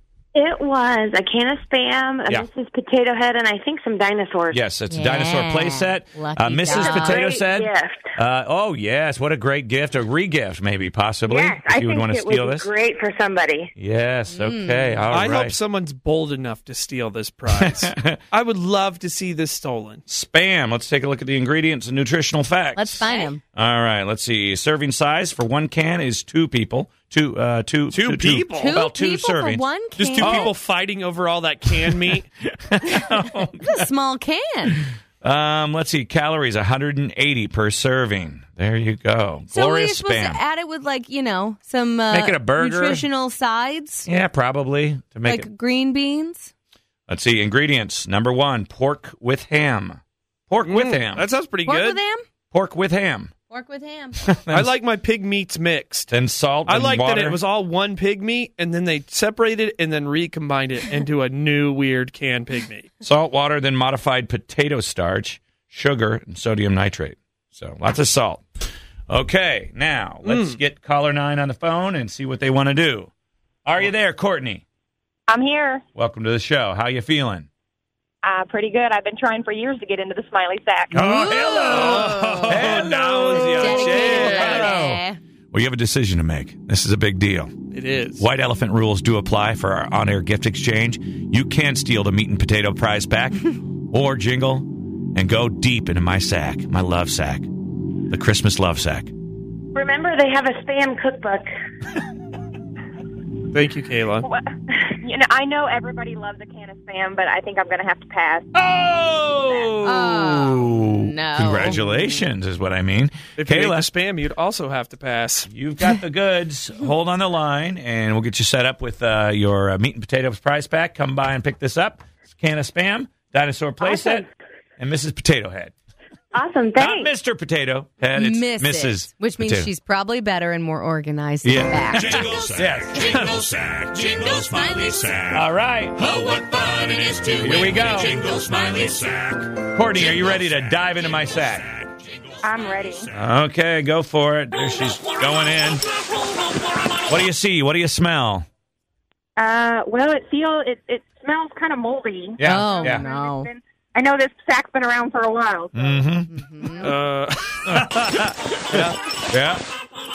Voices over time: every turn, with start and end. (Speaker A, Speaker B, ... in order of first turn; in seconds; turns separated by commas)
Speaker A: 0.3-4.6, Speaker B: 4.5-12.7, Speaker C: 4.9-7.3, Speaker A: 6.7-8.1, Speaker A: 11.3-13.7, Speaker B: 13.8-15.6, Speaker C: 14.3-15.1, Speaker D: 15.1-20.0, Speaker B: 17.5-18.2, Speaker B: 20.1-29.6, Speaker C: 22.8-23.4, Speaker D: 27.9-28.8, Speaker C: 28.5-30.5, Speaker D: 30.0-32.3, Speaker B: 30.2-30.5, Speaker B: 31.9-33.9, Speaker C: 33.6-34.8, Speaker B: 35.2-40.4, Speaker C: 39.5-44.1, Speaker B: 42.1-43.0, Speaker B: 44.1-45.5, Speaker C: 45.2-46.5, Speaker B: 47.1-51.3, Speaker D: 50.6-52.0, Speaker C: 51.6-52.2, Speaker B: 52.5-53.3, Speaker C: 53.5-54.4, Speaker B: 54.2-54.7, Speaker D: 54.5-56.1, Speaker B: 56.1-57.4, Speaker D: 56.7-62.9, Speaker B: 63.0-68.4, Speaker B: 69.1-73.1, Speaker D: 70.2-70.6, Speaker B: 73.7-74.6, Speaker E: 75.3-75.8, Speaker B: 76.0-77.5, Speaker E: 78.2-81.0, Speaker B: 80.9-87.5, Speaker C: 81.1-85.2, Speaker D: 81.7-84.8, Speaker D: 87.7-88.2, Speaker B: 88.2-97.5, Speaker B: 98.1-99.1, Speaker A: 99.8-101.5, Speaker D: 103.5-104.3, Speaker E: 104.9-108.5, Speaker B: 108.5-113.9, Speaker C: 109.8-112.2, Speaker D: 113.4-115.5, Speaker B: 115.5-124.3, Speaker A: 123.8-124.2, Speaker B: 124.8-125.7, Speaker A: 126.3-127.1, Speaker B: 126.8-129.7, Speaker C: 128.1-132.3, Speaker B: 131.4-133.2, Speaker F: 133.2-135.2, Speaker C: 134.5-134.9, Speaker B: 135.3-136.3, Speaker F: 136.3-139.2, Speaker B: 137.2-141.7, Speaker E: 142.4-143.1, Speaker B: 143.1-145.8, Speaker B: 147.1-148.5, Speaker E: 149.4-155.7, Speaker B: 152.4-153.0, Speaker C: 152.4-153.5, Speaker B: 155.7-156.8, Speaker C: 156.3-157.0, Speaker D: 156.8-158.9, Speaker B: 157.7-159.6